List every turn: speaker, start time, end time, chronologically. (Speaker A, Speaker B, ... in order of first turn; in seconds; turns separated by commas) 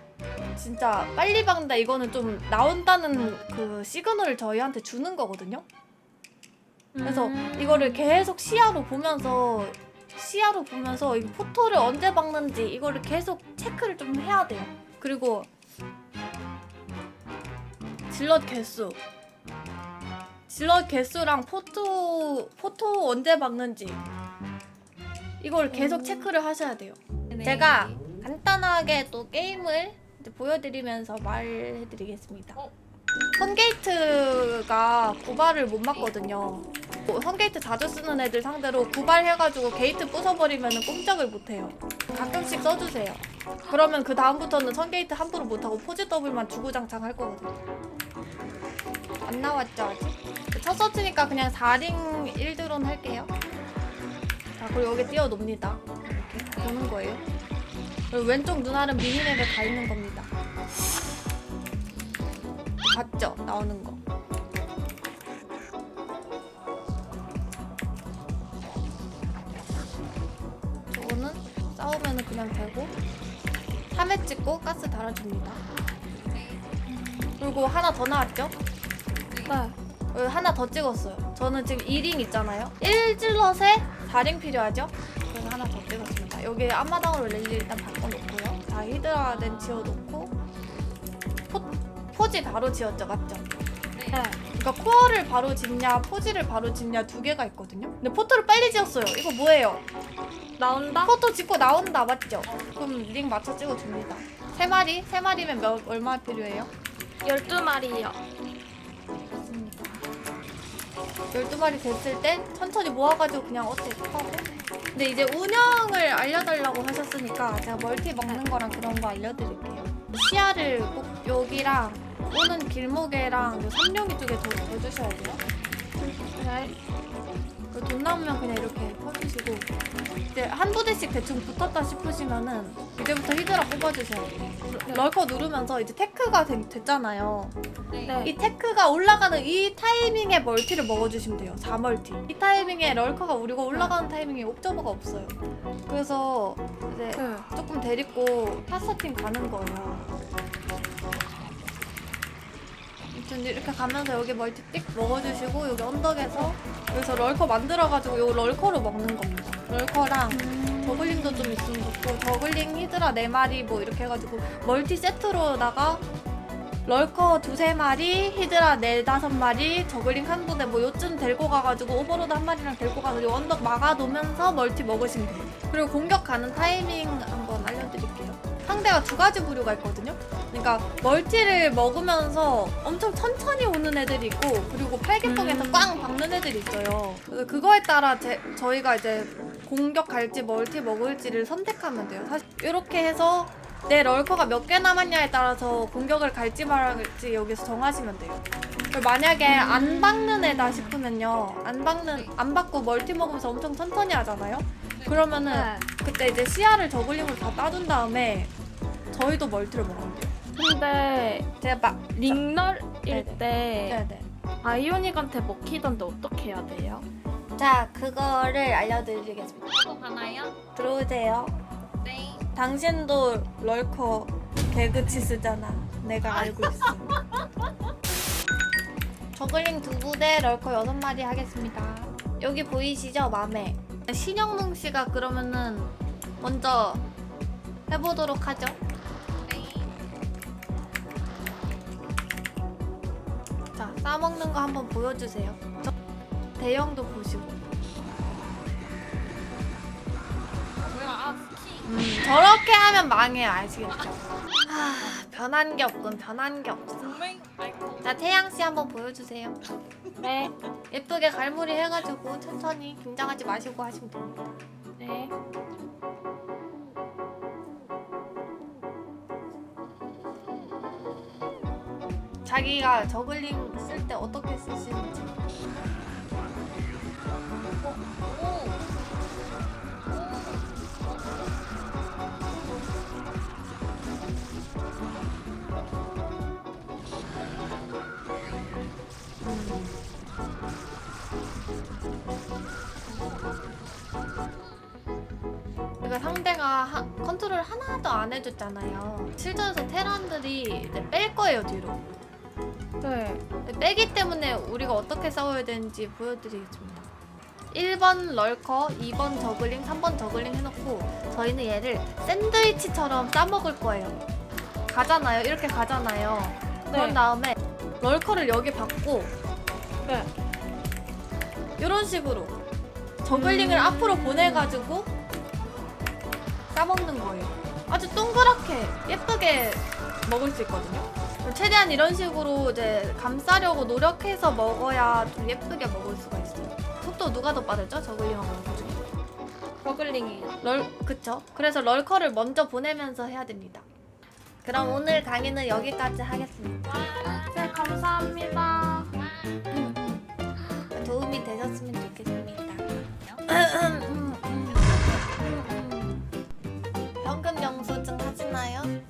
Speaker A: 0.6-5.7, Speaker B: 7.0-8.1, Speaker A: 7.0-15.5, Speaker A: 18.1-19.0, Speaker A: 20.5-24.0, Speaker A: 25.4-32.6, Speaker B: 25.7-26.3, Speaker C: 27.4-27.7, Speaker A: 33.4-47.5, Speaker A: 49.2-53.3, Speaker A: 54.6-57.2, Speaker C: 56.6-56.9, Speaker A: 58.1-60.3, Speaker A: 62.9-64.0, Speaker A: 70.9-72.9, Speaker A: 73.9-75.6, Speaker C: 76.2-76.6, Speaker A: 77.3-78.5, Speaker C: 79.3-79.6, Speaker B: 79.5-79.8, Speaker A: 80.1-90.3, Speaker C: 89.3-90.0, Speaker A: 91.5-93.5, Speaker C: 93.9-94.3, Speaker B: 94.1-94.4, Speaker A: 94.6-99.8, Speaker C: 98.6-98.9, Speaker B: 100.6-101.1, Speaker A: 101.0-106.7, Speaker B: 107.2-108.2, Speaker A: 109.4-110.0, Speaker A: 111.3-125.4, Speaker B: 126.0-126.8, Speaker A: 127.7-129.7, Speaker A: 130.3-137.6, Speaker C: 137.9-138.3, Speaker B: 138.0-138.3, Speaker A: 138.2-145.3, Speaker A: 145.9-150.1, Speaker B: 147.2-147.5, Speaker A: 153.1-166.0, Speaker B: 160.3-161.6, Speaker A: 166.8-208.5, Speaker B: 185.2-185.9, Speaker B: 199.5-200.4, Speaker C: 204.9-205.4, Speaker B: 205.5-205.9, Speaker A: 209.1-210.3, Speaker B: 210.6-211.5, Speaker A: 211.6-212.5, Speaker B: 212.2-214.0, Speaker A: 213.1-214.3, Speaker B: 214.6-217.1, Speaker A: 217.6-219.7, Speaker C: 219.7-220.6, Speaker A: 220.8-221.6, Speaker C: 222.0-222.4, Speaker A: 222.5-227.2, Speaker C: 226.4-227.2, Speaker A: 229.3-237.1, Speaker A: 237.9-238.8, Speaker C: 239.4-240.0, Speaker A: 243.7-245.9, Speaker A: 246.6-247.6, Speaker C: 250.8-252.1, Speaker A: 251.8-257.2, Speaker C: 257.0-258.3, Speaker A: 258.0-259.6, Speaker B: 260.2-260.5, Speaker A: 260.9-264.6, Speaker B: 265.0-265.3, Speaker A: 272.4-275.4, Speaker C: 277.8-278.8, Speaker C: 280.1-281.1, Speaker A: 289.4-290.0, Speaker C: 293.1-293.5, Speaker A: 296.0-302.0, Speaker B: 303.0-303.4, Speaker A: 303.6-307.1, Speaker A: 307.7-314.2, Speaker A: 314.9-319.3, Speaker B: 316.9-317.2, Speaker B: 320.0-320.3, Speaker A: 321.8-322.6, Speaker A: 323.2-325.1, Speaker B: 323.3-324.7, Speaker A: 326.7-339.0, Speaker B: 339.8-340.6, Speaker A: 340.6-343.9, Speaker A: 344.6-347.0, Speaker C: 346.9-349.6, Speaker B: 347.2-349.1, Speaker A: 349.7-350.3, Speaker A: 350.9-356.3, Speaker A: 357.2-358.9